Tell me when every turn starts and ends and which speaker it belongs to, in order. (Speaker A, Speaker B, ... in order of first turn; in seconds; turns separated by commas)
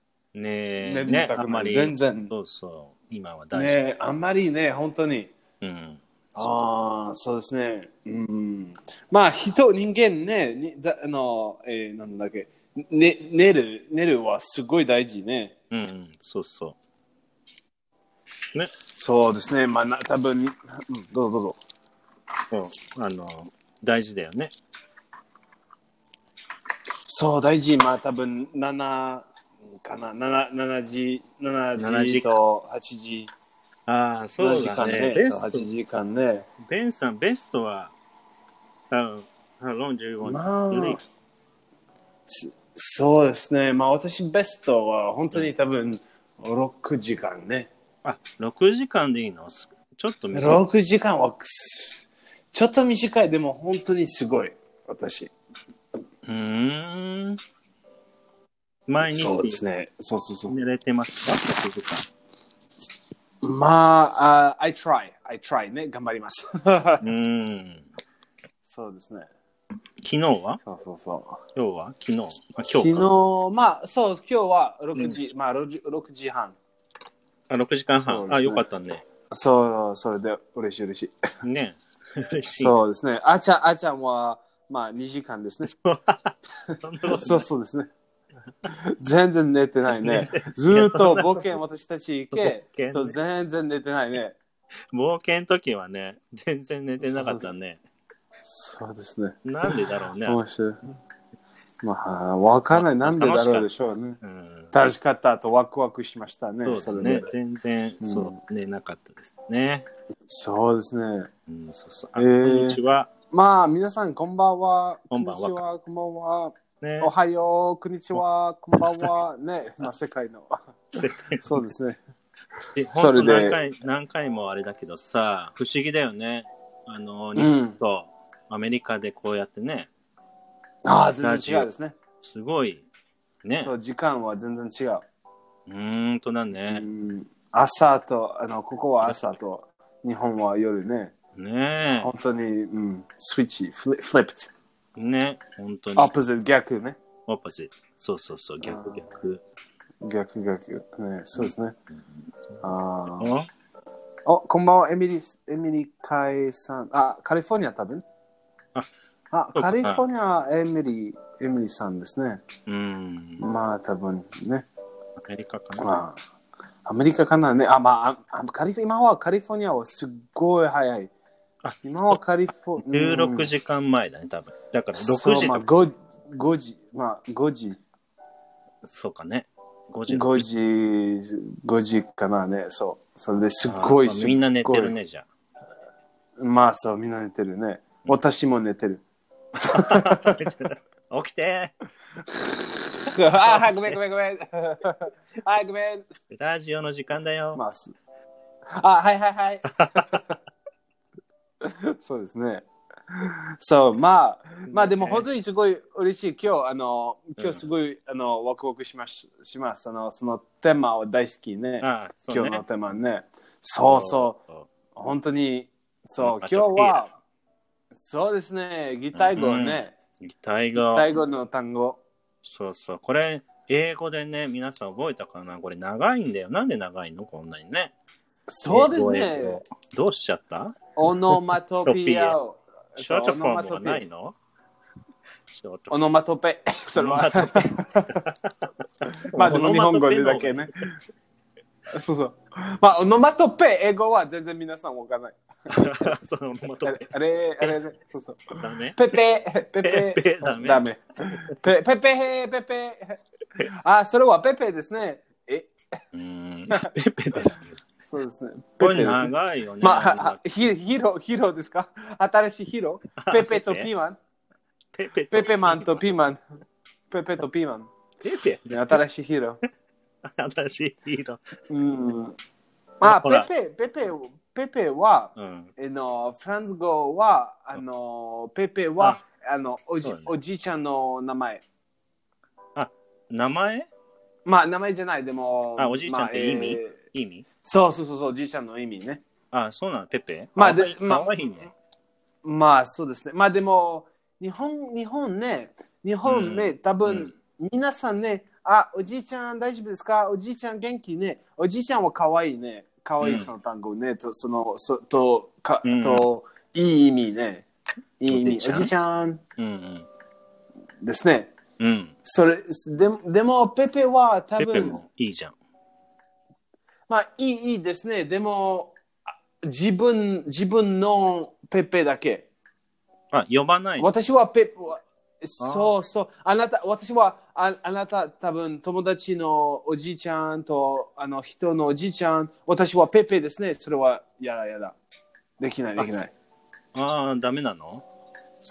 Speaker A: 0.3-3.8, Speaker B: 0.8-2.3, Speaker B: 3.5-5.3, Speaker A: 5.6-6.7, Speaker B: 6.3-15.5, Speaker A: 15.7-16.8, Speaker B: 18.9-21.6, Speaker A: 22.5-24.5, Speaker B: 27.1-29.2, Speaker B: 29.8-33.3, Speaker A: 31.8-32.3, Speaker A: 33.9-35.7, Speaker B: 34.4-36.5, Speaker A: 36.6-37.9, Speaker A: 38.9-41.0, Speaker B: 40.2-41.0, Speaker B: 42.3-47.7, Speaker A: 48.0-50.6, Speaker B: 50.3-55.3, Speaker A: 56.2-57.4, Speaker A: 58.9-59.6, Speaker B: 59.0-60.5, Speaker A: 60.5-62.1, Speaker B: 63.4-67.1, Speaker A: 67.0-67.9, Speaker B: 68.6-69.3, Speaker A: 70.0-70.6, Speaker B: 70.6-71.4, Speaker A: 71.5-73.1, Speaker B: 72.7-76.5, Speaker A: 77.5-79.0, Speaker B: 78.0-78.7, Speaker B: 79.3-81.1, Speaker A: 81.4-82.8, Speaker B: 82.6-85.7, Speaker A: 85.7-87.5, Speaker B: 86.7-87.9, Speaker B: 88.6-94.4, Speaker A: 90.0-91.6, Speaker A: 92.3-93.2, Speaker A: 94.9-97.8, Speaker B: 97.0-97.5, Speaker B: 98.4-100.9, Speaker A: 99.4-100.4, Speaker B: 101.8-104.2, Speaker A: 102.7-103.7, Speaker A: 104.2-104.7, Speaker B: 104.7-107.3, Speaker A: 106.6-109.9, Speaker B: 108.0-108.4, Speaker B: 110.3-111.3, Speaker A: 111.5-113.1, Speaker B: 112.2-112.8, Speaker B: 113.3-122.0, Speaker A: 115.1-115.7, Speaker A: 116.8-117.1, Speaker A: 118.8-119.1, Speaker A: 120.9-121.6, Speaker A: 122.7-129.9, Speaker B: 122.9-123.6, Speaker B: 127.3-127.8, Speaker B: 130.8-131.9, Speaker A: 131.2-131.7, Speaker A: 132.2-132.8, Speaker A: 133.4-133.7, Speaker B: 133.6-135.0, Speaker A: 135.7-136.8, Speaker B: 136.7-141.1, Speaker A: 141.3-142.1, Speaker B: 142.0-144.5, Speaker A: 144.9-146.1, Speaker B: 145.9-147.0, Speaker A: 147.3-149.4, Speaker B: 148.6-149.0, Speaker B: 150.0-151.7, Speaker A: 152.1-152.6, Speaker B: 152.6-153.3, Speaker A: 153.2-153.5, Speaker B: 154.2-158.0, Speaker B: 159.3-162.4, Speaker A: 159.5-160.0, Speaker A: 162.7-163.4, Speaker B: 163.4-164.7, Speaker A: 165.2-165.9, Speaker B: 165.8-166.2, Speaker B: 166.8-171.1, Speaker A: 171.6-172.2, Speaker B: 171.8-173.5, Speaker A: 172.8-175.7, Speaker B: 174.9-177.8, Speaker A: 178.8-180.5, Speaker B: 180.1-184.9, Speaker A: 183.6-185.2, Speaker B: 186.4-189.0, Speaker B: 189.6-190.4, Speaker A: 189.6-191.7, Speaker B: 192.3-196.0, Speaker A: 193.4-193.9, Speaker A: 196.3-197.6, Speaker B: 197.5-197.9, Speaker B: 198.7-200.4, Speaker A: 199.8-200.2, Speaker B: 201.6-214.4, Speaker A: 204.7-205.2, Speaker A: 211.8-212.6, Speaker A: 213.8-214.7, Speaker B: 214.9-217.1, Speaker A: 216.2-217.1, Speaker B: 217.9-219.9, Speaker A: 219.1-221.1, Speaker B: 220.7-222.0, Speaker A: 222.4-227.9, Speaker B: 228.5-229.6, Speaker A: 228.7-230.8, Speaker B: 230.9-234.0, Speaker A: 231.3-232.4, Speaker A: 233.0-234.3, Speaker A: 235.5-235.9, Speaker B: 235.9-238.3, Speaker A: 236.9-240.7, Speaker B: 239.1-240.9, Speaker B: 241.9-246.1, Speaker A: 245.7-247.1, Speaker B: 246.8-255.7, Speaker A: 248.6-249.2, Speaker A: 249.8-250.8, Speaker A: 256.1-257.8, Speaker B: 256.7-264.2, Speaker A: 258.8-260.4, Speaker A: 263.2-263.9, Speaker A: 264.9-266.0, Speaker B: 265.3-266.4, Speaker B: 267.1-267.9, Speaker A: 268.2-269.0, Speaker B: 268.7-269.6, Speaker A: 270.2-271.4, Speaker B: 271.7-272.4, Speaker B: 273.0-281.6, Speaker A: 273.0-273.5, Speaker A: 275.4-275.7, Speaker A: 280.0-280.3, Speaker A: 282.7-283.9, Speaker B: 284.4-286.9, Speaker A: 285.8-287.4, Speaker B: 287.6-289.2, Speaker A: 289.5-291.7, Speaker B: 290.6-291.4, Speaker B: 292.4-307.7, Speaker A: 296.2-297.3, Speaker A: 303.2-303.5, Speaker A: 305.8-306.2, Speaker B: 308.2-309.4, Speaker A: 308.3-308.9, Speaker A: 309.6-310.1, Speaker B: 311.0-311.5, Speaker A: 311.8-312.1, Speaker B: 312.2-315.0, Speaker A: 314.6-315.5, Speaker B: 317.1-322.5, Speaker A: 323.3-324.1, Speaker B: 324.0-335.0, Speaker A: 325.6-325.9, Speaker B: 335.6-336.3, Speaker A: 336.9-338.0